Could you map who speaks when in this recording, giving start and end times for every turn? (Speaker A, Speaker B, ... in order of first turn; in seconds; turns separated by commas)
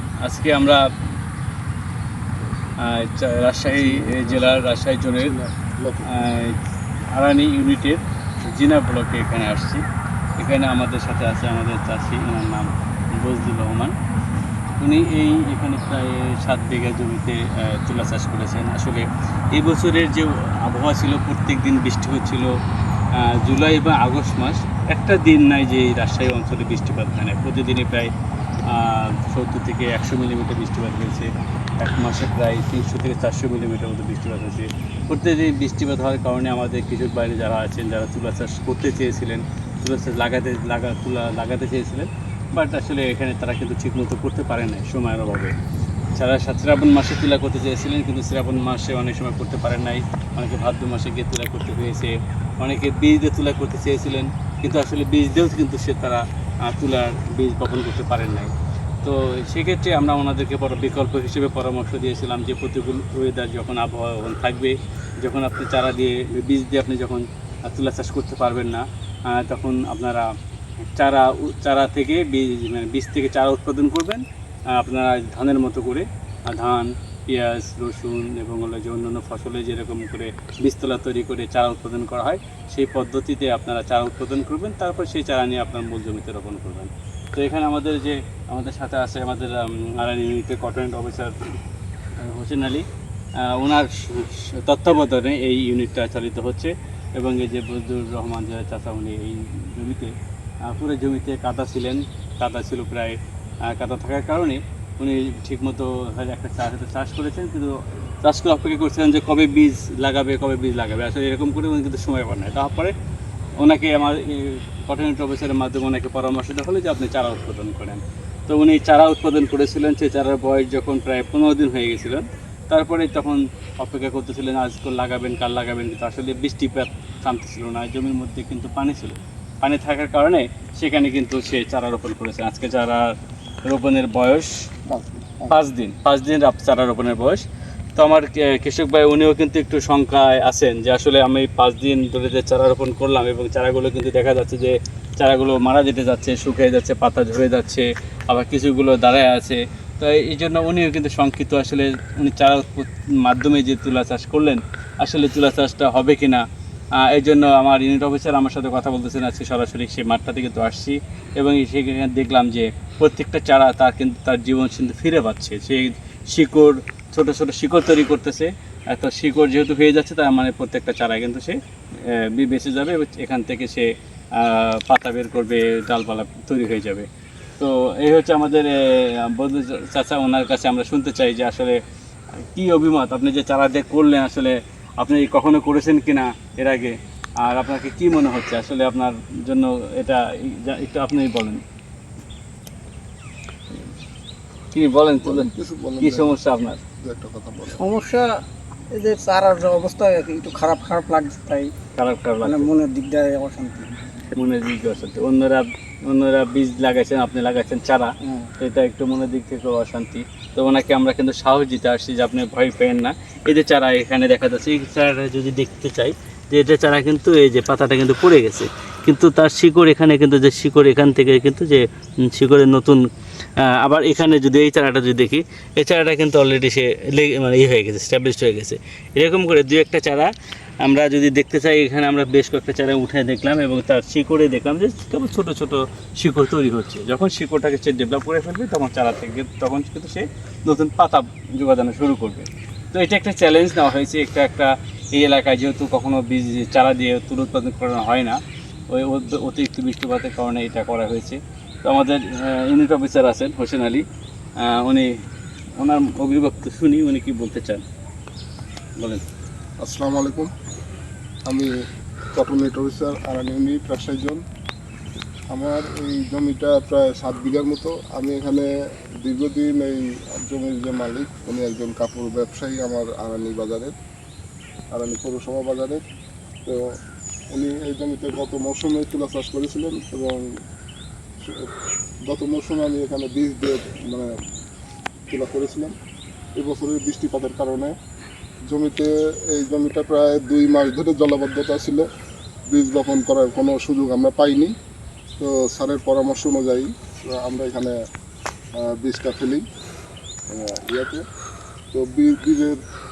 Speaker A: 0.2-0.8, Speaker A: 2.8-5.3, Speaker B: 3.7-6.4, Speaker A: 6.1-6.6, Speaker A: 7.1-9.8, Speaker A: 10.4-14.0, Speaker A: 14.8-22.5, Speaker A: 23.1-28.1, Speaker A: 28.6-45.6, Speaker A: 46.2-70.3, Speaker A: 71.0-91.4, Speaker A: 92.2-92.9, Speaker A: 93.4-100.1, Speaker A: 100.7-112.9, Speaker A: 113.6-134.7, Speaker B: 134.9-135.6, Speaker A: 135.5-137.4, Speaker A: 138.0-156.4, Speaker A: 157.0-177.1, Speaker A: 177.6-181.8, Speaker A: 182.4-191.6, Speaker A: 194.7-196.8, Speaker B: 195.2-196.4, Speaker B: 197.0-197.9, Speaker C: 197.7-201.7, Speaker A: 201.9-202.7, Speaker C: 202.4-203.9, Speaker A: 204.3-223.1, Speaker C: 208.2-208.5, Speaker A: 223.6-254.1, Speaker A: 254.6-255.1, Speaker A: 255.8-257.8, Speaker A: 259.0-259.2, Speaker B: 259.8-260.5, Speaker B: 261.5-261.8, Speaker B: 262.3-264.4, Speaker B: 265.5-268.7, Speaker B: 269.2-273.9, Speaker B: 274.9-276.0, Speaker B: 277.5-280.5, Speaker B: 281.4-281.7, Speaker B: 282.3-284.3, Speaker B: 285.3-285.9, Speaker B: 286.6-287.9, Speaker B: 288.7-292.1, Speaker B: 292.7-294.8, Speaker B: 295.4-298.0, Speaker B: 298.8-299.6, Speaker B: 300.5-301.2, Speaker B: 301.9-302.8